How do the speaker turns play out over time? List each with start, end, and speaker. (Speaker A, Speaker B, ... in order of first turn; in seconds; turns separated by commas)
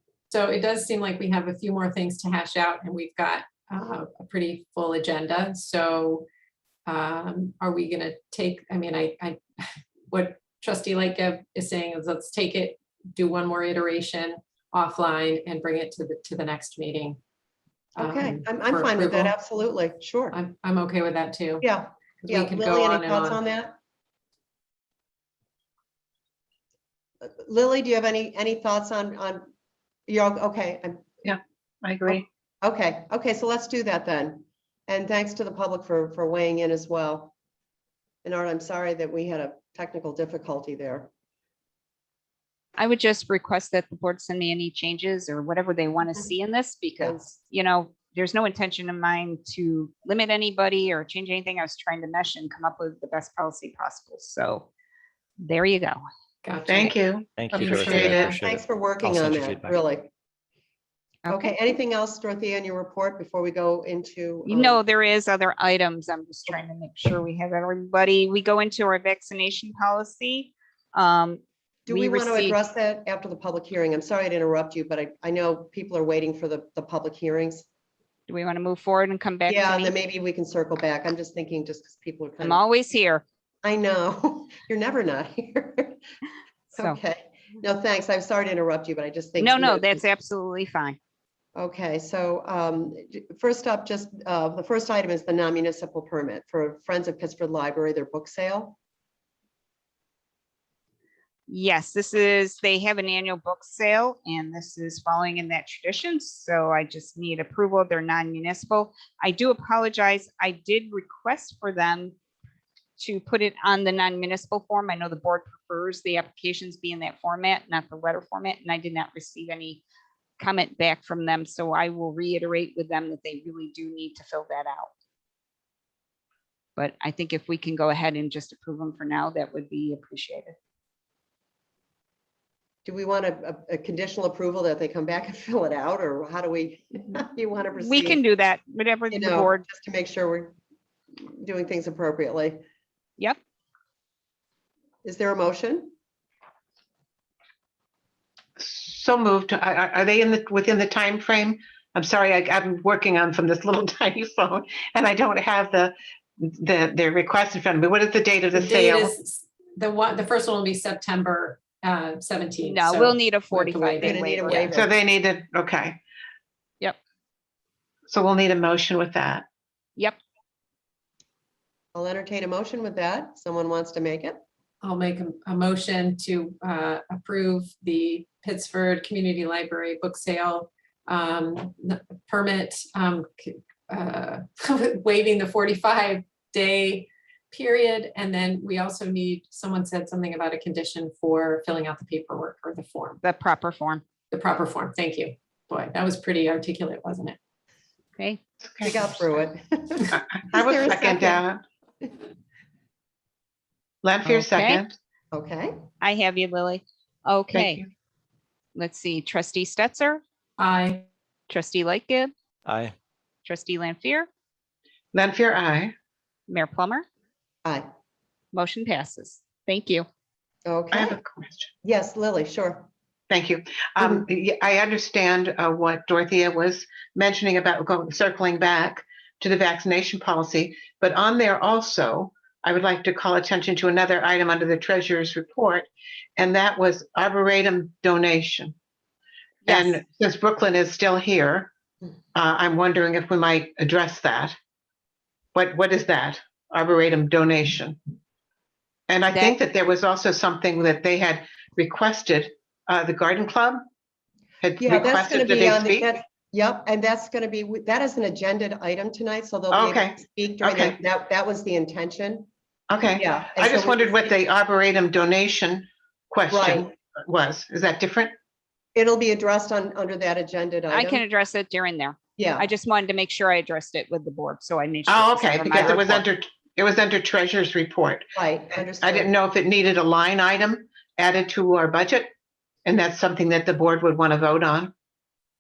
Speaker A: 0.3-6.2, Speaker A: 6.9-9.4, Speaker A: 10.1-17.2, Speaker A: 18.0-19.3, Speaker B: 18.0-20.4, Speaker A: 20.3-21.7, Speaker B: 21.6-23.7, Speaker A: 22.2-23.4, Speaker B: 27.2-29.5, Speaker B: 30.1-31.2, Speaker C: 31.2-32.2, Speaker B: 32.1-37.3, Speaker B: 38.2-41.1, Speaker D: 42.8-54.7, Speaker D: 55.4-56.0, Speaker A: 56.4-58.4, Speaker C: 56.7-58.3, Speaker E: 57.3-59.8, Speaker B: 58.2-60.1, Speaker D: 61.2-61.5, Speaker B: 61.3-64.8, Speaker D: 64.4-72.5, Speaker B: 71.8-77.7, Speaker D: 78.3-79.9, Speaker B: 79.5-82.6, Speaker D: 82.4-83.2, Speaker B: 83.6-86.0, Speaker D: 86.7-87.0, Speaker B: 86.7-90.0, Speaker D: 89.4-91.0, Speaker B: 91.5-98.8, Speaker D: 101.5-112.1, Speaker D: 113.0-119.8, Speaker D: 120.4-124.9, Speaker D: 126.8-130.5, Speaker B: 132.8-138.2, Speaker D: 137.8-139.6, Speaker B: 139.1-140.6, Speaker B: 141.2-142.6, Speaker B: 145.0-145.9, Speaker C: 148.6-159.1, Speaker A: 158.5-164.3, Speaker D: 162.6-164.7, Speaker B: 164.0-164.9, Speaker C: 164.7-166.0, Speaker C: 168.1-169.4, Speaker B: 171.9-174.4, Speaker A: 174.8-193.2, Speaker D: 193.2-194.0, Speaker A: 194.3-197.4, Speaker C: 198.6-199.0, Speaker B: 198.8-201.4, Speaker C: 200.1-201.6, Speaker C: 204.0-205.0, Speaker D: 204.2-204.8, Speaker B: 205.3-205.8, Speaker D: 206.0-207.8, Speaker C: 207.5-207.9, Speaker D: 208.7-210.2, Speaker A: 210.6-211.1, Speaker D: 211.5-212.3, Speaker E: 212.7-212.9, Speaker D: 213.4-214.3, Speaker C: 215.1-215.9, Speaker D: 216.5-217.0, Speaker D: 218.5-220.0, Speaker B: 220.7-221.2, Speaker C: 220.9-221.7, Speaker B: 221.8-222.9, Speaker C: 223.3-238.7, Speaker B: 224.0-224.2, Speaker C: 239.6-241.7, Speaker D: 239.7-240.0, Speaker C: 242.3-244.5, Speaker C: 245.5-248.0, Speaker C: 249.1-253.8, Speaker D: 249.3-249.6, Speaker C: 254.6-256.1, Speaker B: 254.8-262.5, Speaker C: 259.7-261.0, Speaker C: 262.9-268.3, Speaker B: 263.1-264.3, Speaker B: 266.5-266.9, Speaker B: 268.9-271.2, Speaker D: 270.9-276.2, Speaker B: 272.4-272.7, Speaker C: 275.1-278.3, Speaker B: 275.7-276.0, Speaker B: 278.4-279.3, Speaker C: 279.0-282.3, Speaker C: 282.8-284.9